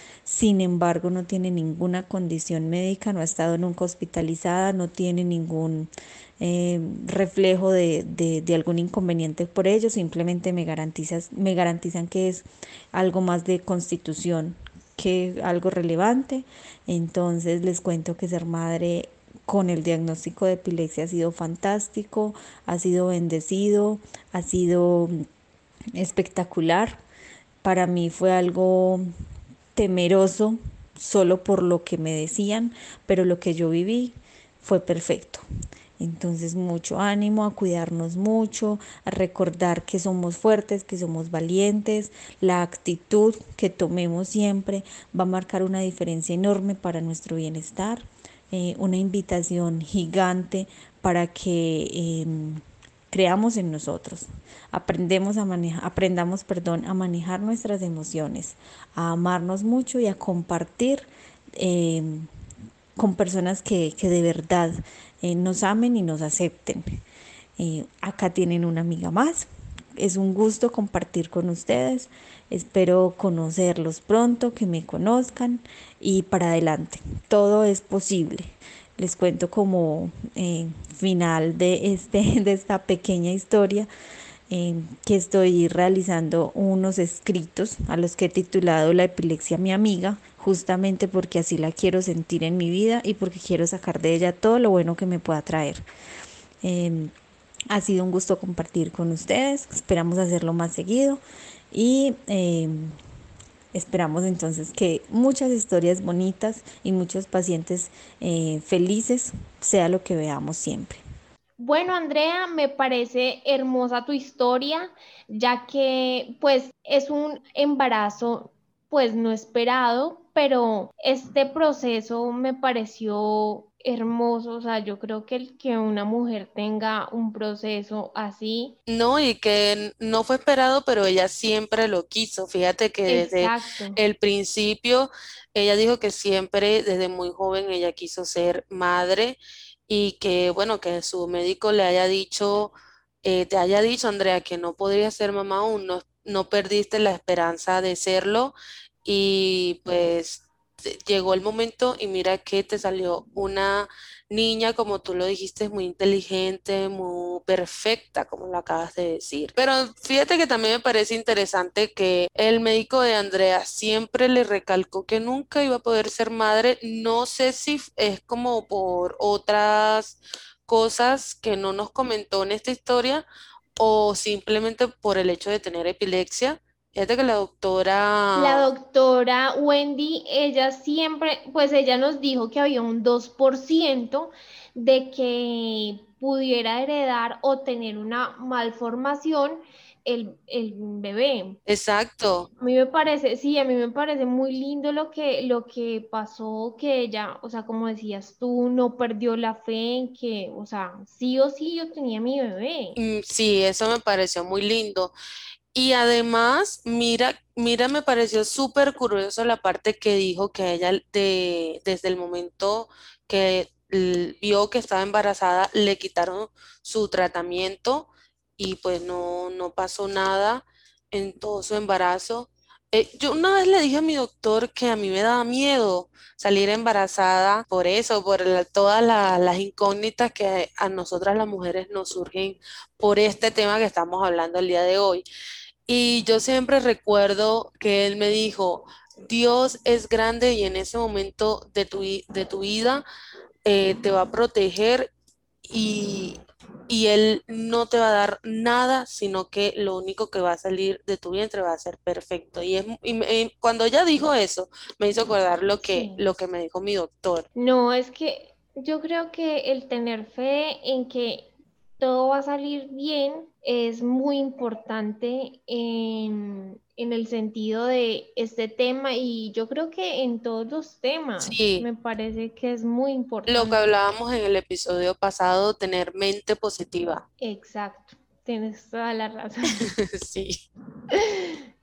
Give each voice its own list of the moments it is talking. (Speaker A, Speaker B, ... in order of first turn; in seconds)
Speaker A: 0.2-25.2, 25.9-27.0, 27.6-29.0, 29.7-35.4, 36.0-62.3, 63.0-66.8, 67.6-69.5, 70.0-83.9, 84.5-95.8, 96.6-97.1, 97.7-101.2, 101.7-102.9, 103.7-111.0
Speaker B: 111.6-128.7, 133.1-134.0, 178.3-191.6, 192.6-203.0, 255.8-256.2, 257.6-273.8, 277.4-279.9, 281.1-281.5
Speaker C: 128.9-173.2, 173.8-178.7, 191.7-192.5, 202.9-205.1, 205.7-235.2, 235.9-243.0, 243.7-245.1, 245.6-257.5, 271.4-271.9, 273.4-277.2, 279.8-280.6